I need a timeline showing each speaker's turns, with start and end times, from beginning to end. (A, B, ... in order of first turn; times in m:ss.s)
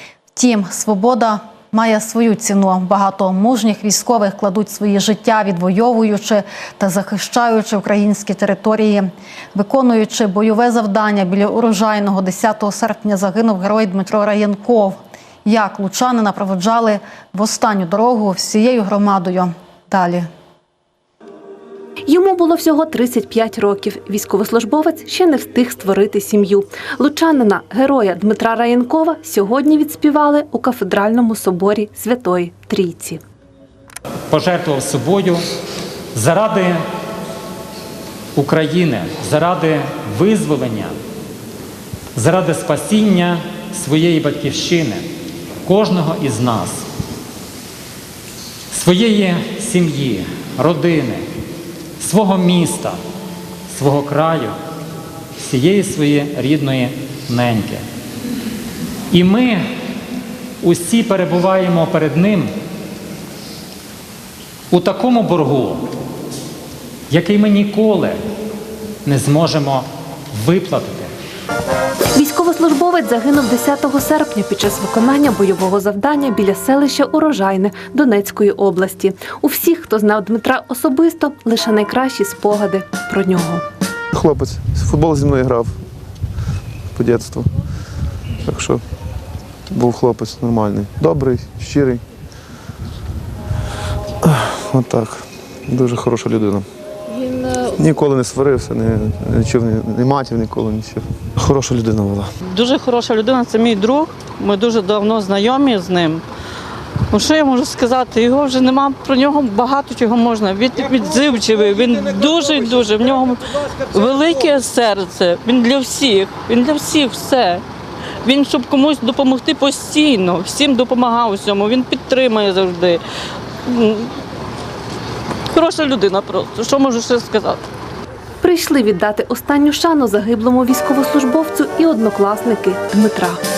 0:00.3-0:20.2 A
0:22.1-0:33.2 B
0:34.3-0:35.4 C
0:36.1-0:36.8 C
0:38.4-0:41.0 C
0:42.1-0:45.0 C
0:45.6-0:46.8 C
0:48.7-0:51.2 C
0:52.0-0:53.0 C
0:53.7-0:54.5 C
0:55.4-0:57.8 C
0:59.1-0:59.6 C
1:00.6-1:02.5 C
1:04.7-1:05.8 C
1:07.1-1:08.2 C
1:09.0-1:11.1 C
1:12.1-1:23.6 B
1:24.1-1:25.8 D
1:26.9-1:27.5 D
1:28.4-1:28.8 D
1:29.7-1:32.0 D
1:34.2-1:36.6 D
1:37.5-1:42.3 D
1:42.4-1:46.2 E
1:47.1-1:57.6 E
1:58.2-2:03.0 E
2:03.6-2:04.1 E
2:05.5-2:07.6 E
2:08.4-2:13.4 B